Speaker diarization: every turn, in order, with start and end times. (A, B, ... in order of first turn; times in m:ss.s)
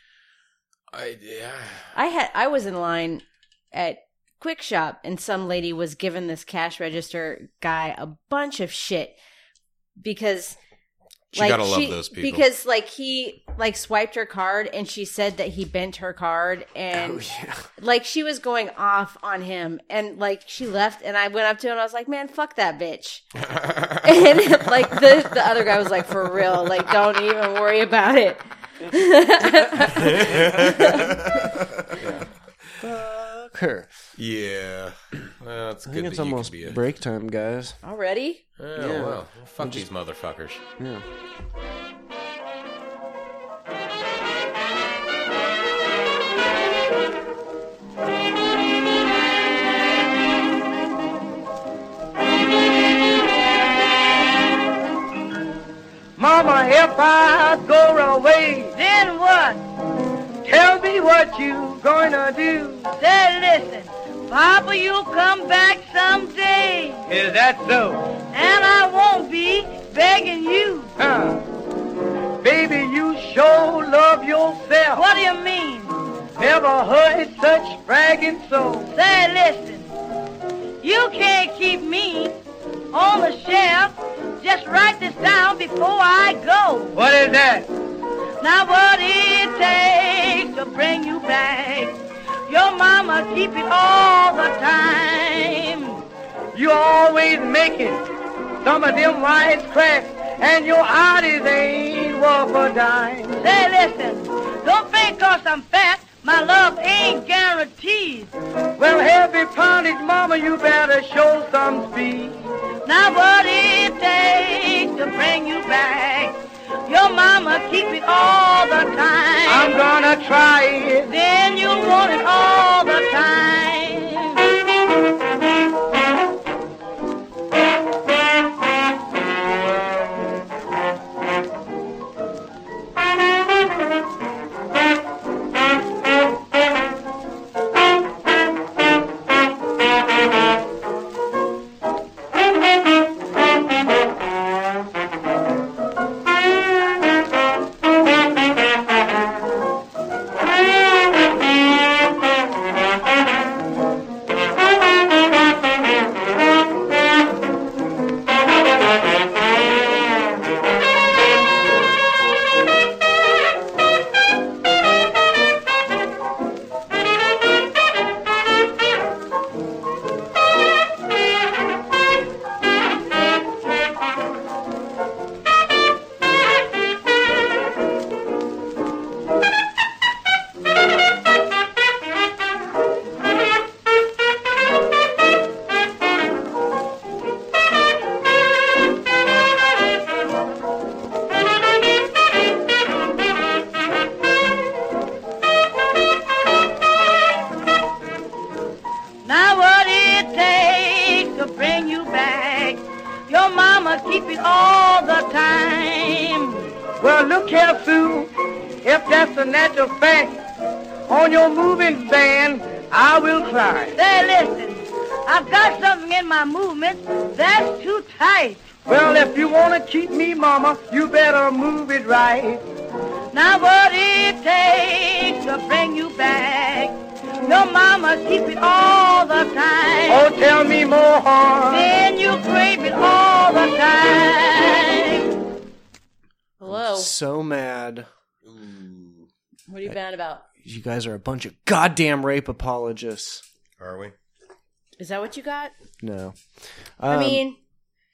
0:00.9-0:01.9 A
0:01.9-0:09.2 B
0:10.0-0:10.6 B
0:11.3-0:12.4 A
0:11.3-0:17.2 B
0:16.9-0:17.7 C
0:17.8-0:23.3 B
0:23.5-0:24.1 A
0:24.0-0:31.3 B
0:29.8-0:32.1 A
0:32.8-0:33.9 C
0:34.2-0:36.8 A
0:35.9-0:37.8 C
0:37.8-0:38.4 B
0:38.6-0:40.6 A
0:38.8-0:39.9 C
0:40.8-0:41.0 C
0:56.2-0:58.8 D
0:58.8-0:59.6 E
1:00.4-1:02.9 D
1:03.0-1:07.1 E
1:07.1-1:08.1 D
1:08.3-1:10.9 E
1:11.0-1:11.4 D
1:12.4-1:15.0 D
1:15.0-1:16.0 E
1:16.4-1:18.9 D
1:18.9-1:19.9 E
1:20.8-1:22.4 E
1:22.9-1:27.0 E
1:27.0-1:27.7 D
1:28.4-1:36.0 E
1:36.5-1:38.0 D
1:38.6-1:43.4 D
1:43.4-1:48.3 E
1:48.8-1:52.5 D
1:52.8-1:56.3 E
1:56.9-1:59.8 E
1:59.5-2:01.1 D
2:01.1-2:04.5 E
3:19.2-3:26.7 E
3:27.0-3:28.3 D
3:28.8-3:30.4 D
3:31.1-3:34.0 D
3:34.0-3:38.7 E
3:38.9-3:42.6 D
3:43.3-3:50.3 E
3:50.1-3:51.9 D
3:51.7-3:55.3 E
3:56.6-3:57.1 B
3:56.7-3:58.1 C
3:58.4-3:59.3 A
3:59.7-4:00.5 B
4:00.6-4:03.4 C
4:03.8-4:04.2 A
4:05.0-4:05.7 B
4:06.0-4:06.4 C
4:07.0-4:07.4 C
4:07.1-4:07.6 B